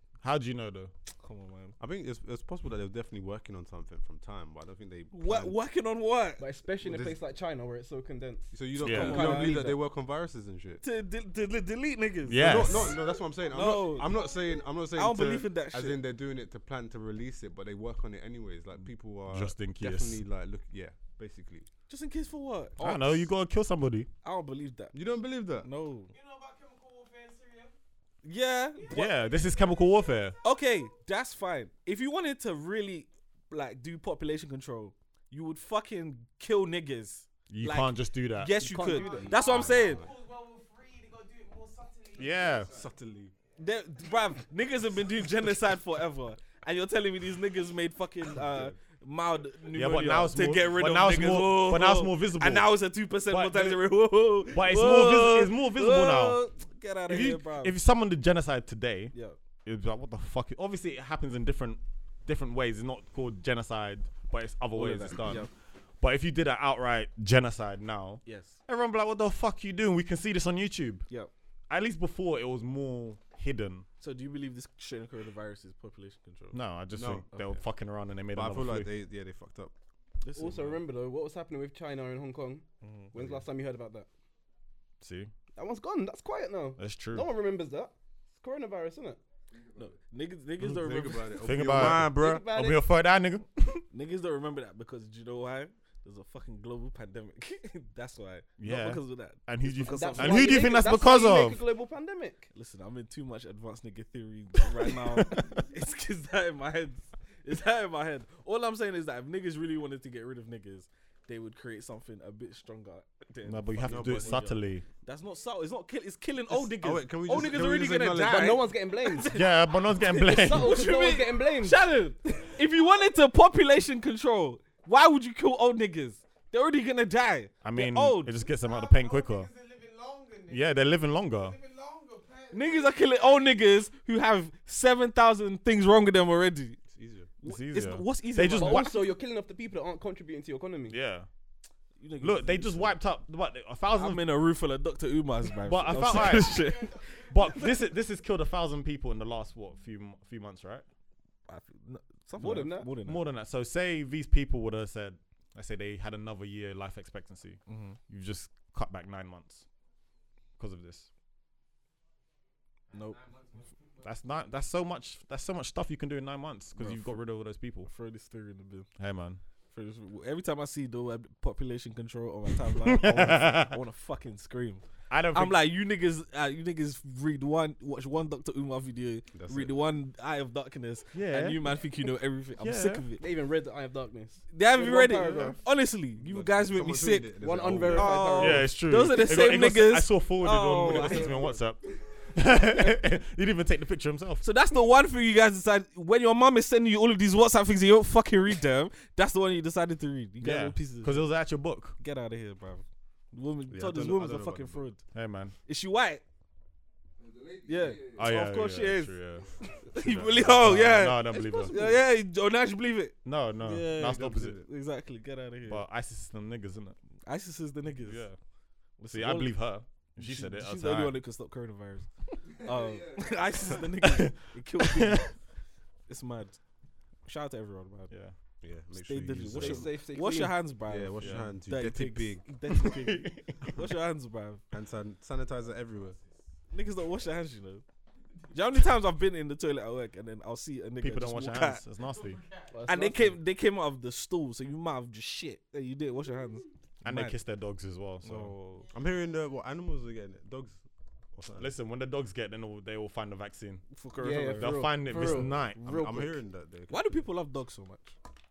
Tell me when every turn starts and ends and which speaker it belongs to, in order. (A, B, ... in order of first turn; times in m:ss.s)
0:00.2-0:00.9 A
0:01.2-0:01.8 B
0:01.8-0:05.6 C
0:05.1-0:06.4 B
0:06.4-0:09.8 D
0:06.8-0:07.2 C
0:08.5-0:10.8 C
0:08.8-0:09.3 A
0:08.9-0:09.6 B
0:10.8-0:12.9 B
0:12.2-0:13.0 A
0:12.4-0:21.7 C
0:13.2-0:14.8 E
0:13.5-0:14.2 B
0:14.9-0:16.0 B
0:19.3-0:20.2 A
0:21.9-0:23.3 B
0:22.8-0:24.1 A
0:24.2-0:25.0 B
0:24.9-0:25.7 C
0:25.6-0:26.1 B
0:26.1-0:27.7 E
0:28.2-0:29.1 B
0:28.7-0:30.7 E
0:28.9-0:30.4 A
0:30.4-0:40.0 B
0:37.5-0:38.7 A
0:38.6-0:39.3 D
0:38.8-0:42.8 E
0:39.4-0:40.1 C
0:42.2-0:42.7 A
0:42.7-0:43.3 C
0:43.6-0:57.8 B
0:48.4-0:48.8 C
0:49.7-0:52.7 A
0:53.3-0:53.9 A
0:54.4-0:56.4 A
0:57.1-0:59.1 A
0:59.6-1:05.5 A
1:04.7-1:05.5 B
1:06.0-1:11.1 A
1:08.2-1:08.6 B
1:11.7-1:13.9 A
1:14.0-1:16.6 B
1:16.5-1:18.9 A
1:16.9-1:17.4 C
1:17.3-1:17.6 B
1:18.3-1:19.7 C
1:20.2-1:20.8 B
1:20.4-1:24.1 D
1:22.8-1:23.1 B
1:23.1-1:23.4 C
1:25.0-1:25.3 A
1:25.6-1:29.2 D
1:26.8-1:27.3 A
1:29.5-1:30.0 F
1:29.8-1:31.5 B
1:30.6-1:32.4 C
1:31.4-1:33.8 A
1:32.1-1:32.8 D
1:33.9-1:40.6 B
1:38.6-1:41.6 A
1:39.9-1:42.5 D
1:42.5-1:59.6 B
1:53.4-1:54.8 A
1:53.8-1:54.5 C
1:56.6-1:58.6 C
1:58.2-1:59.3 D
1:59.3-2:00.9 A
2:00.1-2:01.9 D
2:00.4-2:08.4 B
2:02.5-2:03.2 E
2:07.6-2:09.5 A
2:08.4-2:13.5 E
2:10.5-2:11.6 A
2:12.5-2:16.8 B
2:16.9-2:17.3 C
2:17.4-2:19.0 B
2:17.4-2:19.0 A
2:18.6-2:21.0 D
2:20.9-2:21.3 A
2:22.0-2:23.0 B
2:22.2-2:24.4 A
2:23.9-2:27.1 B
2:25.6-2:30.9 A
2:25.9-2:27.9 E
2:31.5-2:33.2 B
2:32.4-2:33.0 D
2:33.0-2:39.7 A
2:37.7-2:38.0 B
2:40.6-2:41.1 A
2:42.9-2:44.5 E
2:42.9-2:43.2 B
2:44.0-2:47.9 A
2:46.8-2:47.2 B
2:47.8-2:48.9 B
2:49.0-2:49.4 A
2:49.7-3:03.2 B
2:52.9-2:53.8 A
2:55.1-2:55.7 A
2:59.3-2:59.9 C
3:01.1-3:01.9 A
3:02.6-3:03.0 A
3:03.2-3:05.6 D
3:04.5-3:07.3 B
3:05.2-3:05.6 A
3:06.2-3:08.3 C
3:07.4-3:08.7 D
3:07.9-3:11.6 B
3:08.4-3:14.4 A
3:10.8-3:11.5 D
3:14.4-3:21.3 B
3:20.4-3:22.0 A
3:22.0-3:25.0 B
3:23.7-3:24.9 C
3:25.1-3:25.6 A
3:25.7-3:26.2 B
3:27.2-3:28.5 F
3:27.7-3:35.8 B
3:28.2-3:31.9 A
3:33.2-3:34.6 A
3:34.0-3:34.7 C
3:35.7-3:37.0 A
3:37.3-3:38.3 B
3:38.0-3:38.4 A
3:39.0-3:45.4 B
3:39.1-3:41.2 A
3:42.6-3:43.7 F
3:44.1-3:45.3 A
3:46.1-3:46.7 B
3:47.2-3:48.1 B
3:48.1-3:48.4 A
3:48.6-3:50.0 C
3:48.9-3:54.6 B
3:49.6-3:50.6 D
3:50.9-3:52.5 C
3:51.2-3:51.5 A
3:52.7-3:53.6 A
3:54.7-3:56.2 C
3:55.6-3:56.5 E
3:56.7-3:57.8 B
3:58.3-3:58.6 E
3:58.5-4:01.8 B
4:01.0-4:02.4 A
4:02.0-4:03.1 E
4:02.7-4:03.4 D
4:02.9-4:07.4 B
4:07.0-4:08.6 A
4:08.2-4:08.9 B
4:08.8-4:09.2 E
4:08.9-4:10.8 C
4:11.3-4:11.7 C
4:11.6-4:13.9 A
4:13.9-4:15.0 B
4:14.2-4:16.0 D
4:14.5-4:16.2 A
4:15.4-4:17.3 C
4:16.9-4:18.2 B